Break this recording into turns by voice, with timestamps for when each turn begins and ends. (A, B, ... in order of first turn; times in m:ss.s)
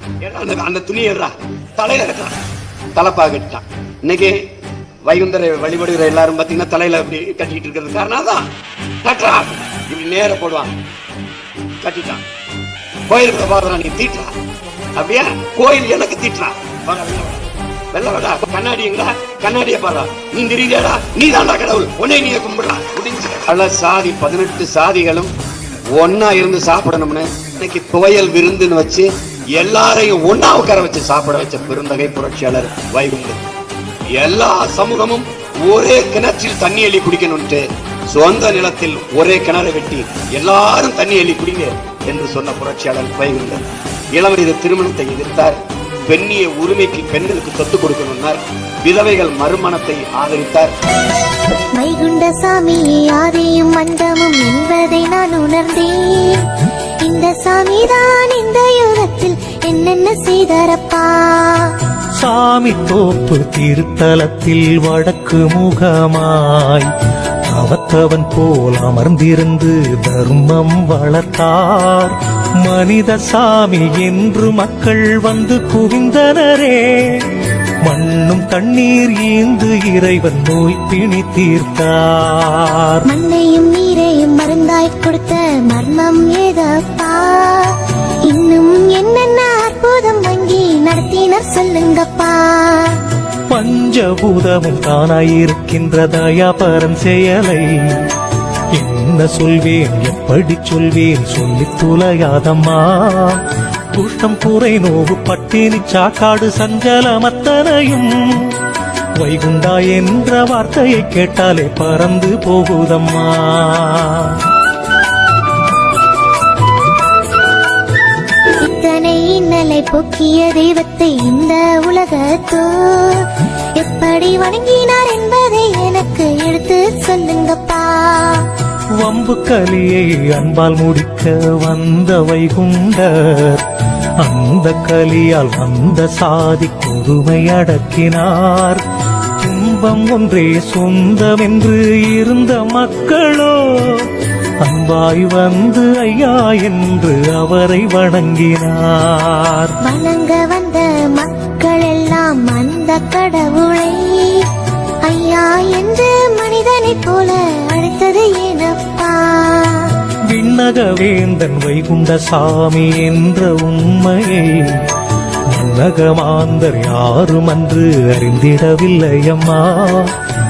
0:00.2-0:02.3 A
0:03.0-0:04.4 A
0:05.0-0:08.5 A
0:09.0-0:10.7 A
0:11.8-0:12.2 A
0:13.1-0:14.3 A
0:15.0-0:25.3 A
0:25.9-0:33.4 A
0:34.2-0:50.7 A
0:51.8-0:56.5 B
0:57.0-1:01.8 B
1:02.2-1:06.9 C
1:07.5-1:17.3 C
1:17.8-1:23.0 C
1:23.1-1:33.0 B
1:33.5-1:38.0 C
1:38.7-1:43.4 C
1:43.9-1:48.5 C
1:49.2-1:54.4 C
1:58.6-2:03.3 B
2:03.8-2:08.5 B
2:09.0-2:13.6 C
2:14.2-2:18.8 C
2:19.4-2:24.1 C
2:24.6-2:29.8 C
2:29.8-2:34.5 B
2:35.0-2:39.9 B
2:40.3-2:44.8 C
2:45.5-2:50.1 C